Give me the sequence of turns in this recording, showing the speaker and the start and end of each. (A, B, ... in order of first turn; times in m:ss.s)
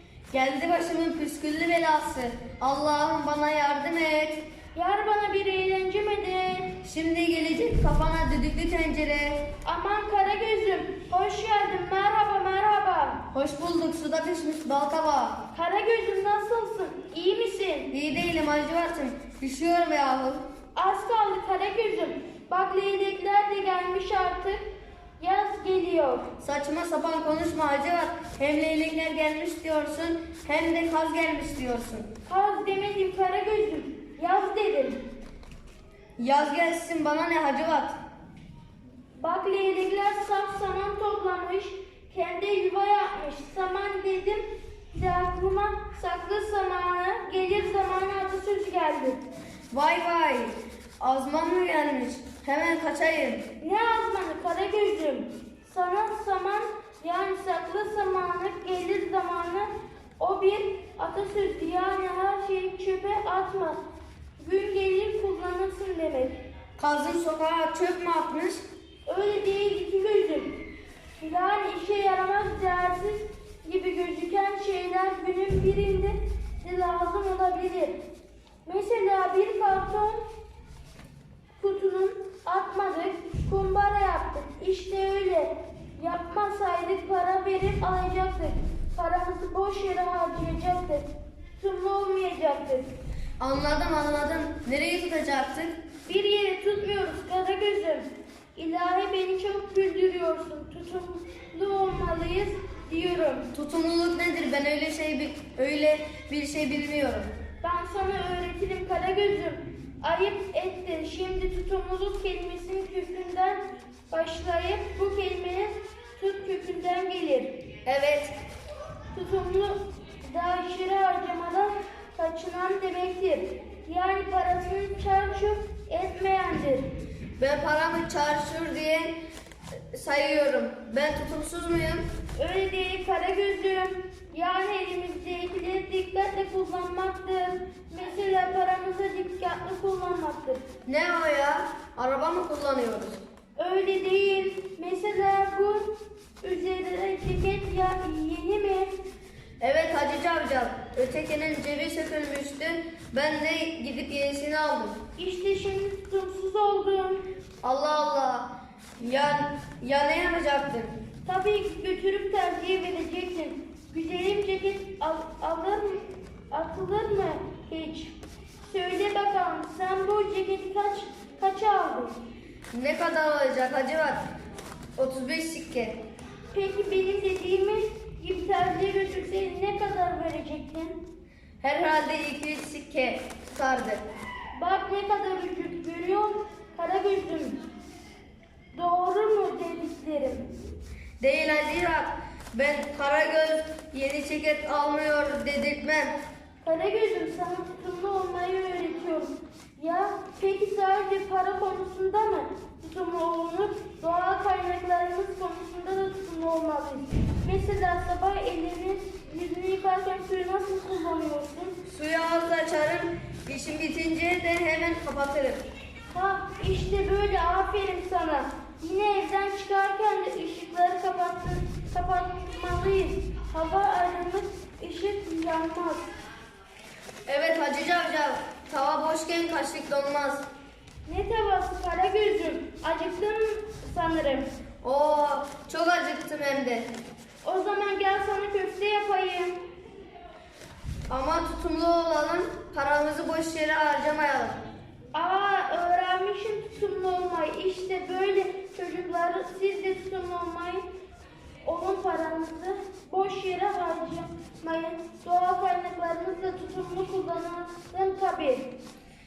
0:00.3-0:04.4 A
0:04.7-0:06.7 B
0:06.8-0:09.5 A
0:09.6-0:13.2 B
0:13.3-0:15.4 A
0:15.5-0:17.9 B
0:17.9-0:20.4 A
0:20.8-0:24.6 B
0:25.2-0:26.3 B
0:26.4-0:32.1 A
0:32.3-0:35.1 B
0:36.2-0:38.0 A
0:39.2-0:49.2 B
0:49.7-0:53.4 A
0:53.6-0:59.7 B
1:00.2-1:03.8 B
1:04.4-1:06.4 B
1:06.8-1:08.6 A
1:09.0-1:10.6 B
1:11.2-1:18.0 B
1:18.6-1:20.2 B
1:21.6-1:32.9 B
1:33.4-1:35.7 A
1:36.0-1:43.5 B
1:43.5-1:47.3 A
1:47.6-1:57.7 B
1:57.8-1:58.3 A
1:59.1-2:06.9 B
2:07.4-2:09.1 A
2:09.9-2:12.0 A
2:12.4-2:20.6 B
2:20.8-2:23.2 A
2:23.6-2:28.9 B
2:29.6-2:35.0 A
2:35.2-2:37.2 B
2:37.6-2:40.9 A
2:41.2-2:52.2 B
2:52.7-2:54.3 A
2:55.0-2:56.0 A
2:56.5-3:01.0 B
3:01.6-3:04.0 A
3:04.5-3:07.6 B
3:08.7-3:10.5 B
3:11.2-3:16.2 A
3:16.6-3:31.8 B
3:31.8-3:35.6 A
3:36.1-3:46.1 B
3:47.2-3:50.4 A
3:51.0-3:54.5 B
3:54.8-3:56.9 A
3:57.4-3:59.6 B
4:01.1-4:04.6 A
4:05.1-4:10.8 B
4:11.6-4:18.7 B